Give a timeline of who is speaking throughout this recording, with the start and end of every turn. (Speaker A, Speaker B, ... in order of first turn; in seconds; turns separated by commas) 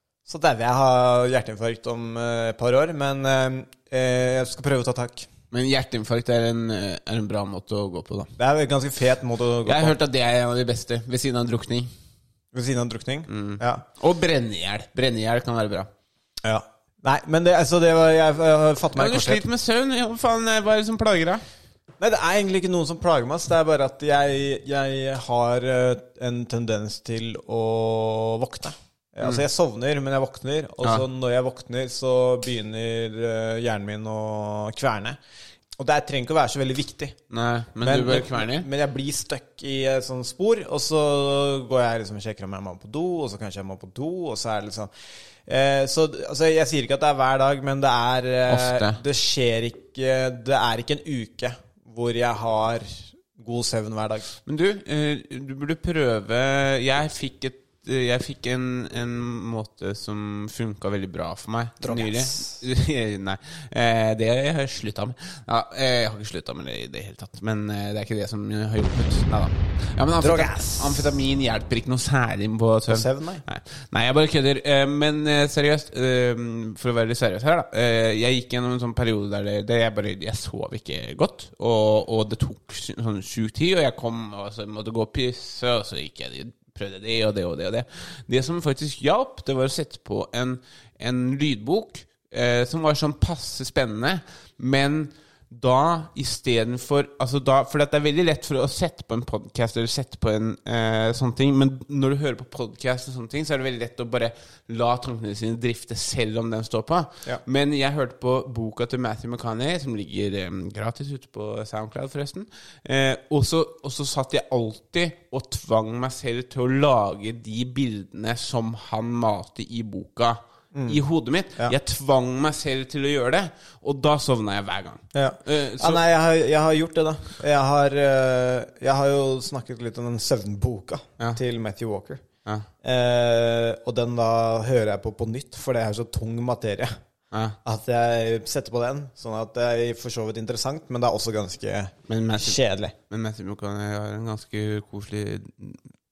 Speaker A: 0.2-5.3, Speaker B: 5.5-8.3, Speaker A: 8.4-10.0, Speaker B: 9.6-11.9, Speaker A: 12.5-13.8, Speaker B: 13.3-15.9, Speaker A: 16.4-19.4, Speaker B: 19.0-21.4, Speaker A: 22.0-35.2, Speaker A: 35.8-37.2, Speaker B: 37.3-38.7, Speaker A: 37.8-44.9, Speaker A: 45.5-54.3, Speaker B: 48.5-49.0, Speaker B: 54.5-126.0, Speaker A: 61.8-62.6, Speaker A: 70.2-71.1, Speaker A: 72.9-73.4, Speaker A: 120.7-121.0, Speaker A: 125.1-132.2, Speaker A: 132.8-136.9, Speaker A: 137.6-142.9, Speaker B: 142.1-145.8